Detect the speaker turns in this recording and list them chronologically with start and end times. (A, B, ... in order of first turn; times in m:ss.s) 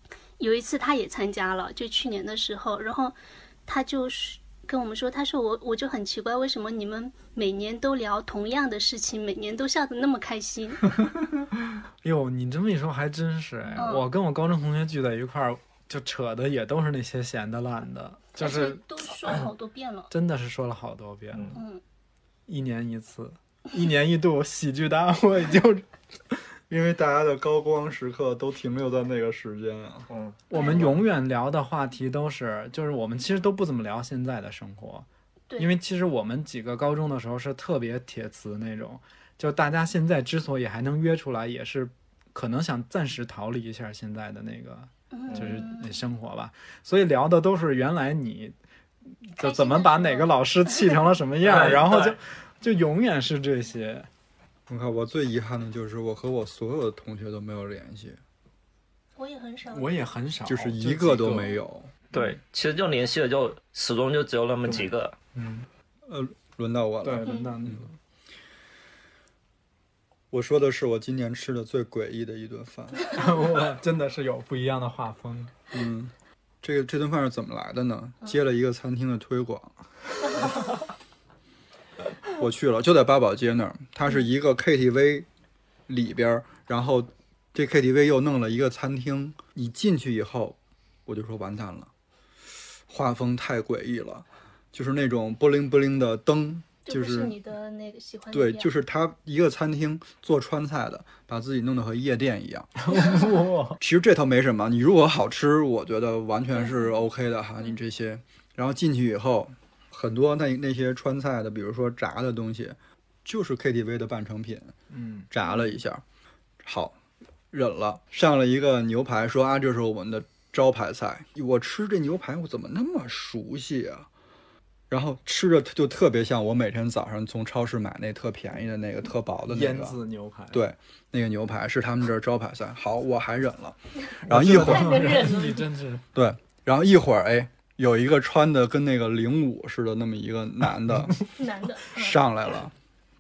0:00.4-0:03.2 A
0:03.7-0:10.9 A
0:12.0-0:18.8 B
0:13.8-0:14.1 A
0:18.4-0:20.1 A
0:20.1-0:21.6 B
0:21.6-0:21.8 A
0:22.5-0:26.4 B
0:26.7-0:30.1 C
0:30.1-0:30.4 D
0:30.5-0:35.1 B
0:30.5-0:31.0 A
0:35.5-0:35.7 A
0:35.6-0:48.6 B
0:45.1-0:46.0 A
0:49.3-0:54.1 B
0:49.4-0:50.3 A
0:51.4-0:52.2 D
0:54.7-0:58.2 C
0:59.2-0:59.9 A
0:59.7-1:01.6 B
1:00.5-1:01.9 C
1:02.1-1:05.2 D
1:04.7-1:05.7 B
1:06.1-1:07.8 C
1:07.0-1:08.0 B
1:07.3-1:07.5 A
1:10.3-1:13.1 C
1:13.1-1:15.5 B
1:15.7-1:19.7 C
1:22.3-1:25.3 C
1:25.9-1:31.9 C
1:32.9-1:37.4 C
1:36.9-1:38.7 A
1:38.3-1:43.3 C
1:42.8-1:43.8 B
1:43.8-1:54.8 C
1:54.9-1:55.3 B
1:55.3-1:56.0 C
1:56.6-1:57.0 C
1:57.5-2:04.1 C
2:04.9-2:10.0 C
2:09.5-2:10.6 B
2:10.5-2:15.3 C
2:14.2-2:16.0 B
2:14.5-2:15.7 A
2:16.1-2:21.2 C
2:21.4-2:22.2 A
2:21.9-2:22.7 C